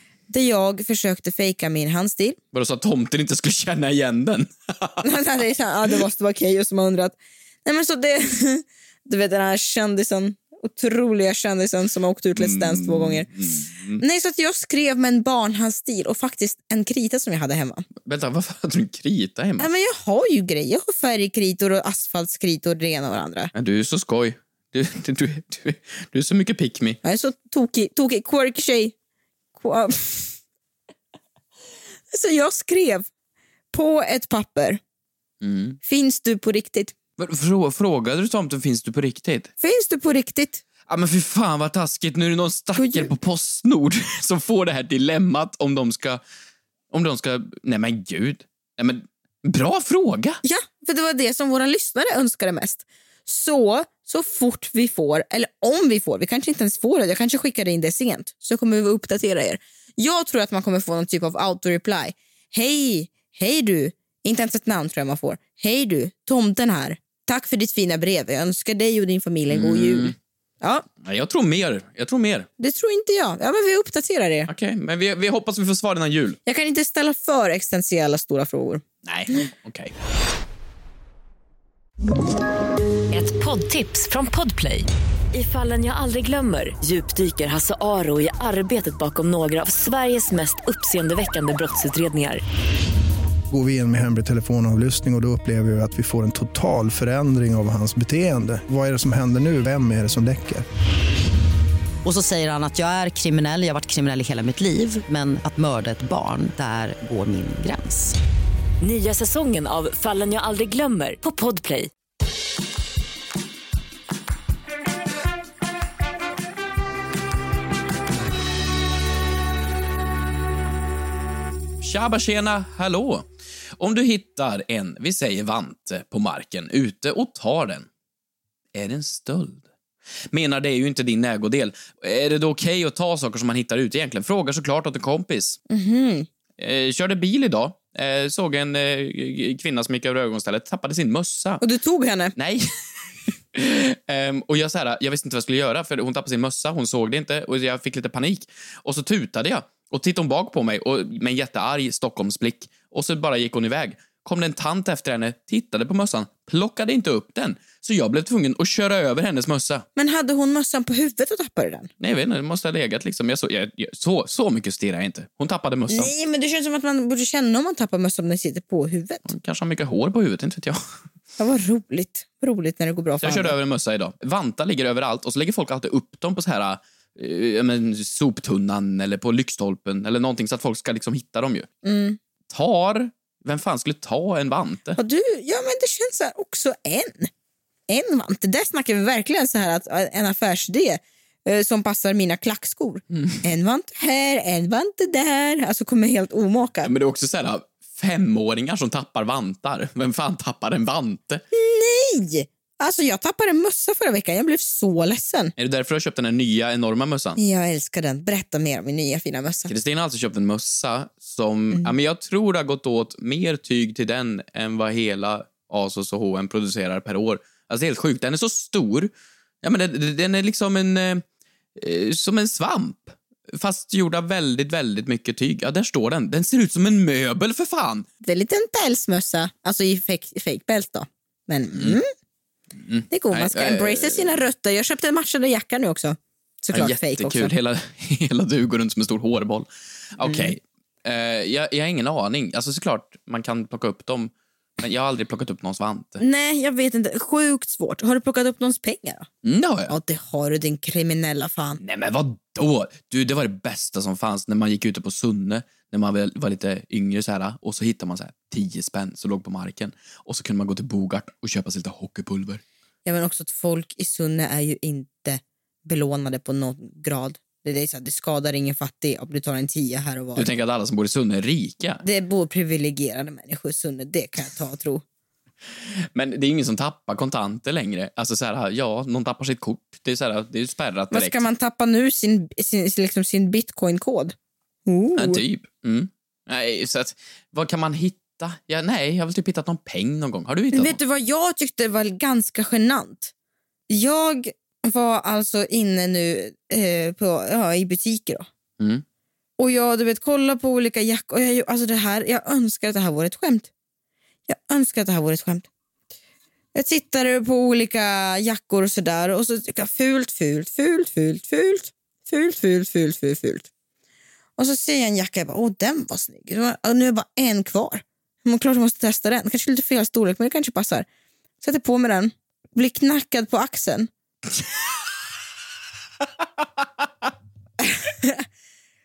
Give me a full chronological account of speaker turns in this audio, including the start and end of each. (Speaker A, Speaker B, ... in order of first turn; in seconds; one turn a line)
Speaker A: 0.3-2.4
Speaker B: 2.5-5.0
Speaker A: 5.0-13.3
Speaker B: 12.4-14.0
Speaker A: 14.0-17.9
Speaker B: 18.0-19.7
Speaker A: 19.6-23.5
Speaker B: 23.5-27.0
Speaker A: 27.0-28.9
Speaker A: 29.6-30.3
Speaker A: 32.1-33.1
Speaker A: 33.7-34.8
Speaker B: 35.4-35.8
Speaker A: 35.9-36.9
Speaker B: 37.2-39.5
Speaker A: 39.6-40.6
Speaker B: 40.9-46.2
Speaker A: 42.8-43.1
Speaker B: 46.9-50.4
Speaker A: 50.4-70.8
Speaker B: 69.5-70.1
Speaker B: 71.0-72.5
Speaker A: 72.6-74.5
Speaker B: 74.5-76.4
Speaker A: 76.5-78.8
Speaker B: 79.0-79.9
Speaker C: 83.1-92.4
Speaker D: 93.5-100.7
Speaker E: 102.0-108.2
Speaker C: 108.8-111.9
Speaker B: 121.8-123.3
Speaker B: 123.8-127.9
Speaker B: 128.7-129.7
Speaker B: 130.3-135.6
Speaker A: 135.7-136.3
Speaker B: 136.6-141.6
Speaker A: 141.6-142.3
Speaker B: 142.4-142.7
Speaker B: 143.6-159.8
Speaker A: 160.0-161.9
Speaker B: 162.0-166.1
Speaker A: 165.9-169.3
Speaker B: 169.3-170.8
Speaker A: 171.4-173.6
Speaker B: 173.2-181.7
Speaker A: 181.8-182.2
Speaker B: 182.5-185.0
Speaker A: 185.0-187.3
Speaker A: 187.9-196.9
Speaker B: 193.1-193.4
Speaker B: 196.8-201.4
Speaker A: 201.5-205.5
Speaker B: 205.6-207.4
Speaker A: 207.4-209.7
Speaker B: 209.7-219.1
Speaker B: 219.6-221.2
Speaker B: 221.8-228.1
Speaker A: 228.2-232.1
Speaker B: 232.8-234.4
Speaker A: 233.1-237.5
Speaker B: 236.7-246.2
Speaker A: 240.2-240.6
Speaker A: 246.2-249.3
Speaker B: 249.4-249.9
Speaker A: 249.9-251.8
Speaker B: 251.8-262.6
Speaker A: 263.1-270.5
Speaker B: 270.4-272.0
Speaker A: 272.0-275.0
Speaker B: 276.1-281.4
Speaker A: 281.1-284.4
Speaker A: 284.9-285.4
Speaker B: 285.2-291.0
Speaker A: 290.7-293.3
Speaker A: 293.9-298.5
Speaker A: 299.6-303.7
Speaker A: 304.5-305.7
Speaker A: 306.8-313.7
Speaker A: 314.6-321.1
Speaker A: 321.6-324.1
Speaker A: 327.8-328.5